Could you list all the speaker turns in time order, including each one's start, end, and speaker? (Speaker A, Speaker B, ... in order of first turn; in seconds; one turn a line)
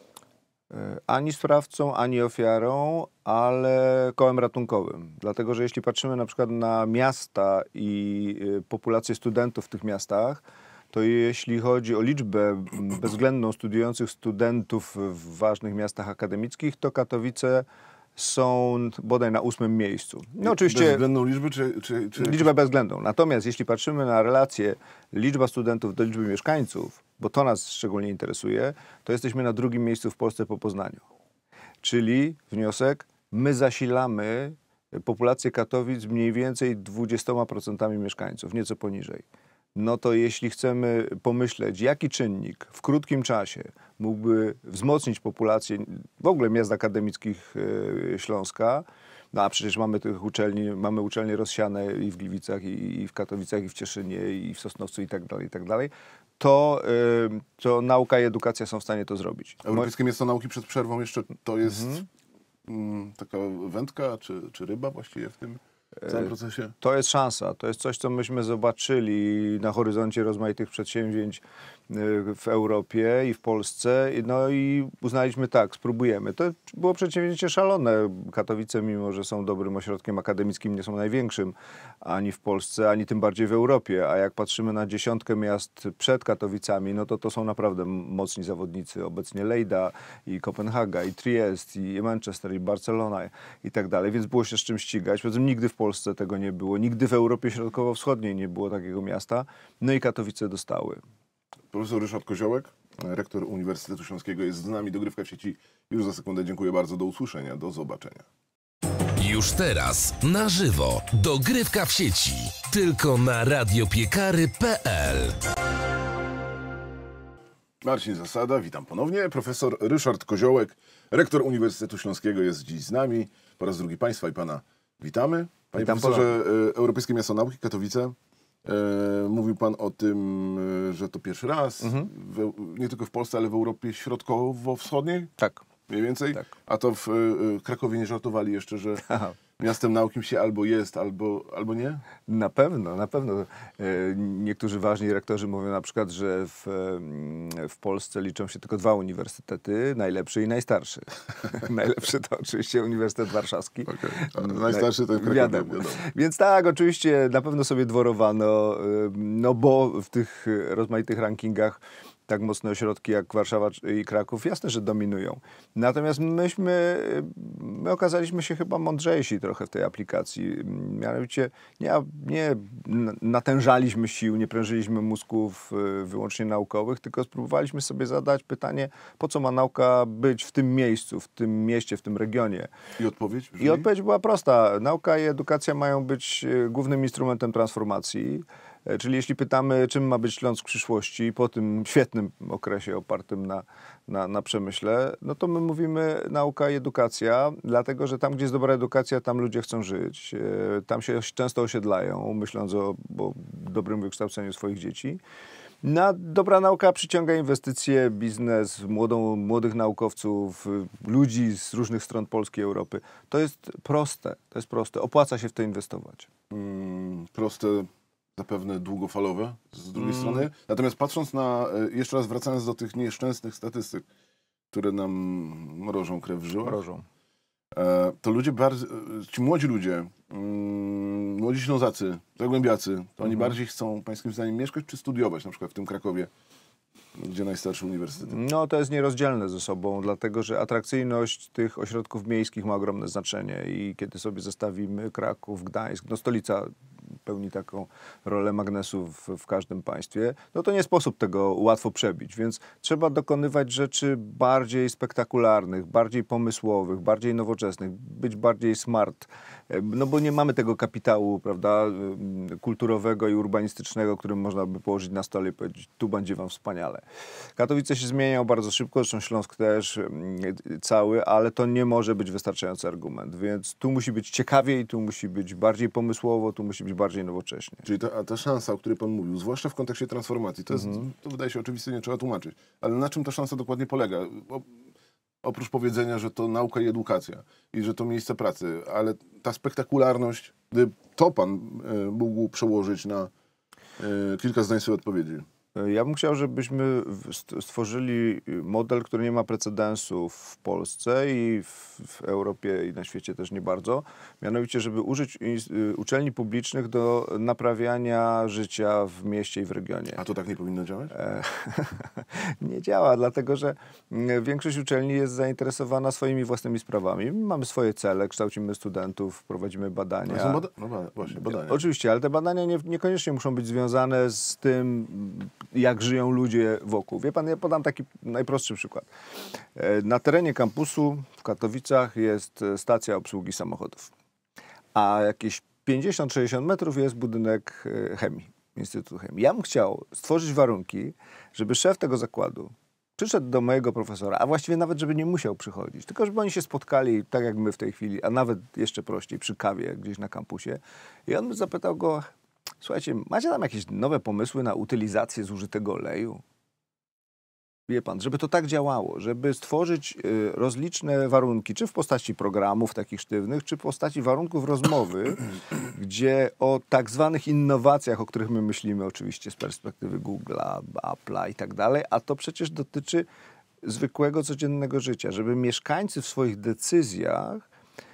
Speaker A: 0.7-17.6
Speaker A: 18.1-21.0
Speaker B: 20.4-22.5
Speaker A: 22.2-31.0
Speaker A: 31.8-59.9
Speaker B: 59.6-62.0
Speaker A: 61.7-62.0
Speaker B: 62.6-66.7
Speaker A: 66.0-101.0
Speaker B: 101.7-108.2
Speaker C: 109.2-115.4
Speaker B: 117.8-135.3
Speaker A: 125.7-126.3
Speaker A: 131.8-132.1
Speaker A: 135.4-135.6
Speaker B: 135.9-139.0
Speaker A: 139.1-139.3
Speaker B: 139.6-142.0
Speaker A: 142.2-182.7
Speaker B: 153.9-156.0
Speaker B: 183.0-183.9
Speaker A: 183.6-205.2
Speaker A: 205.8-216.3
Speaker B: 216.5-224.1
Speaker A: 219.9-220.5
Speaker B: 224.7-226.8
Speaker A: 226.6-227.0
Speaker B: 227.7-236.3
Speaker B: 237.2-238.4
Speaker A: 238.3-246.7
Speaker A: 247.2-267.0
Speaker A: 267.6-277.9
Speaker B: 277.8-284.7
Speaker A: 280.7-281.1
Speaker B: 285.4-293.3
Speaker B: 294.0-295.4
Speaker A: 295.7-310.2
Speaker B: 310.1-311.1
Speaker A: 311.1-320.6
Speaker B: 320.3-321.8
Speaker A: 321.4-329.1
Speaker A: 329.8-334.1
Speaker A: 334.9-356.4
Speaker A: 357.9-373.2
Speaker A: 373.8-377.6